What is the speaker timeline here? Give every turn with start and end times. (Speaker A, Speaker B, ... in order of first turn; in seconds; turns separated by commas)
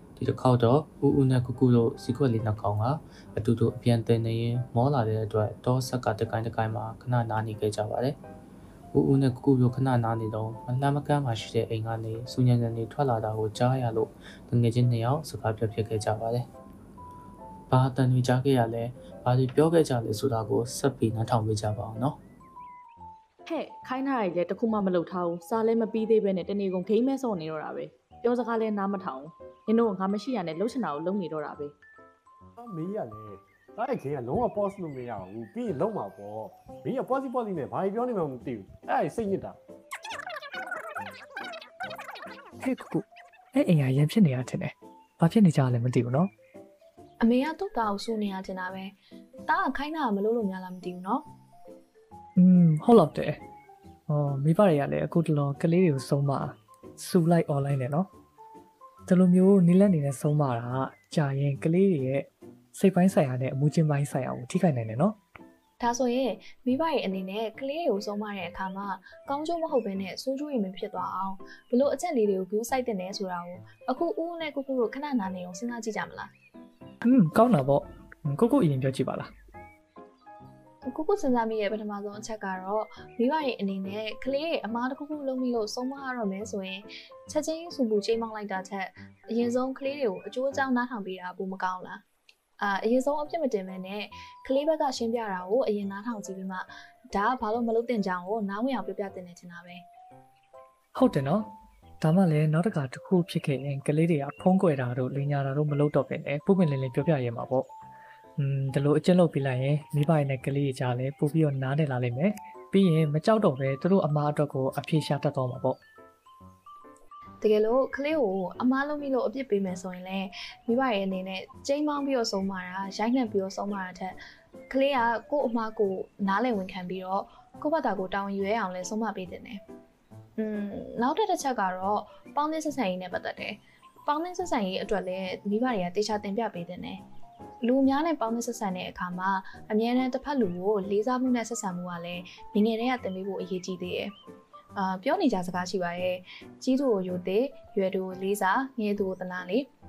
Speaker A: 0.2-8.2, Speaker A: 8.9-16.5, Speaker A: 17.7-22.2, Speaker B: 23.4-31.7, Speaker C: 32.6-39.6, Speaker D: 42.6-46.3, Speaker E: 47.2-51.2, Speaker D: 52.4-53.4, Speaker D: 54.1-58.1, Speaker D: 59.0-65.2, Speaker E: 65.8-76.3, Speaker D: 77.0-79.3, Speaker E: 80.9-92.0, Speaker E: 92.6-99.8, Speaker D: 100.9-107.7, Speaker D: 108.4-115.8, Speaker E: 117.4-124.2, Speaker E: 124.7-129.6, Speaker E: 130.4-137.0, Speaker E: 137.6-144.1, Speaker E: 144.7-149.7